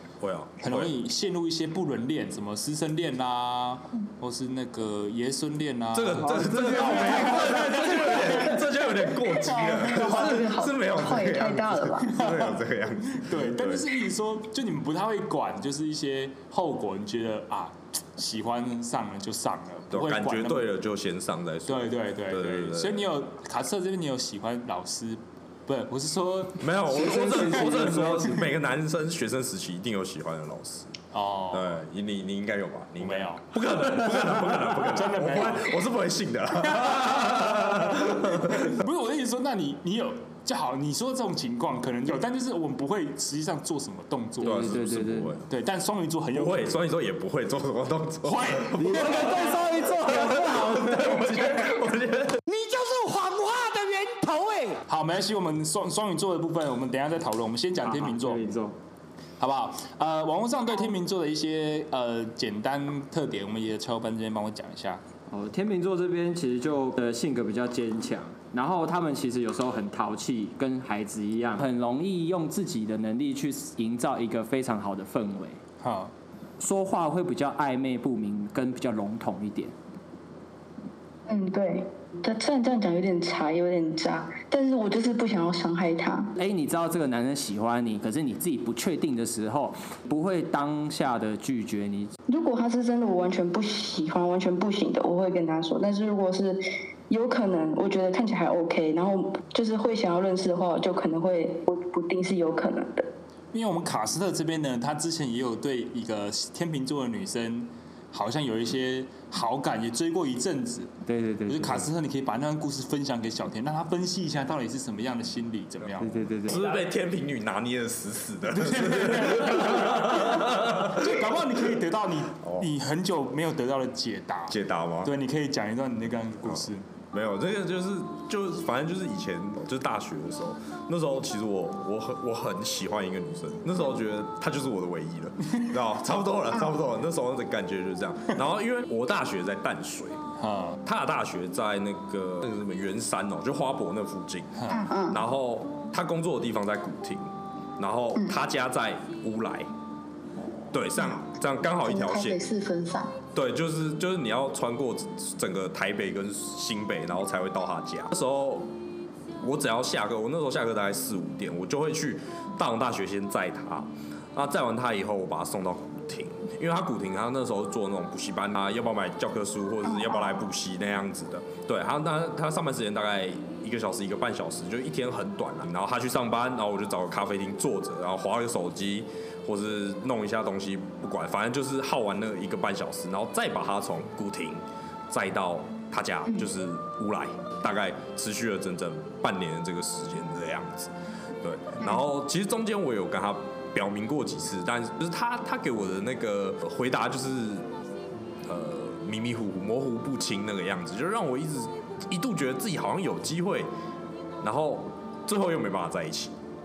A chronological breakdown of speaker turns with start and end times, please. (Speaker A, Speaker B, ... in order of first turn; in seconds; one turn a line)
Speaker A: 0.2-0.9
Speaker B: 0.6-8.7
Speaker A: 5.9-14.0
Speaker C: 6.2-7.9
Speaker D: 9.6-12.1
Speaker B: 9.6-10.2
Speaker B: 12.1-20.7
Speaker A: 19.9-23.1
Speaker B: 21.7-26.7
Speaker A: 26.6-31.0
Speaker C: 26.9-28.4
Speaker B: 27.2-28.1
Speaker B: 31.1-31.8
Speaker A: 31.5-38.8
Speaker B: 33.0-35.9
Speaker B: 36.6-44.7
Speaker A: 44.4-45.5
Speaker C: 44.4-45.4
Speaker B: 45.5-46.8
Speaker A: 46.3-52.4
Speaker B: 48.2-49.4
Speaker C: 48.8-51.4
Speaker E: 52.5-54.8
Speaker B: 54.9-58.5
Speaker C: 57.8-58.7
Speaker B: 59.4-65.0
Speaker C: 65.3-75.6
Speaker B: 75.8-76.1
Speaker C: 76.6-79.7
Speaker D: 81.3-86.3
Speaker C: 86.4-92.1
Speaker D: 92.3-103.1
Speaker B: 103.5-110.9
Speaker C: 111.0-111.9
Speaker B: 111.5-116.8
Speaker C: 116.0-116.6
Speaker A: 116.5-121.2
Speaker B: 118.5-126.8
Speaker A: 122.4-122.7
Speaker A: 124.5-125.1
Speaker A: 126.5-140.2
Speaker B: 140.4-140.8
Speaker A: 140.8-149.7
Speaker B: 144.6-144.8
Speaker D: 144.7-145.2
Speaker A: 150.7-152.4
Speaker D: 151.8-153.1
Speaker A: 153.3-158.7
Speaker A: 159.4-197.7
Speaker A: 198.4-203.7
Speaker A: 204.4-206.3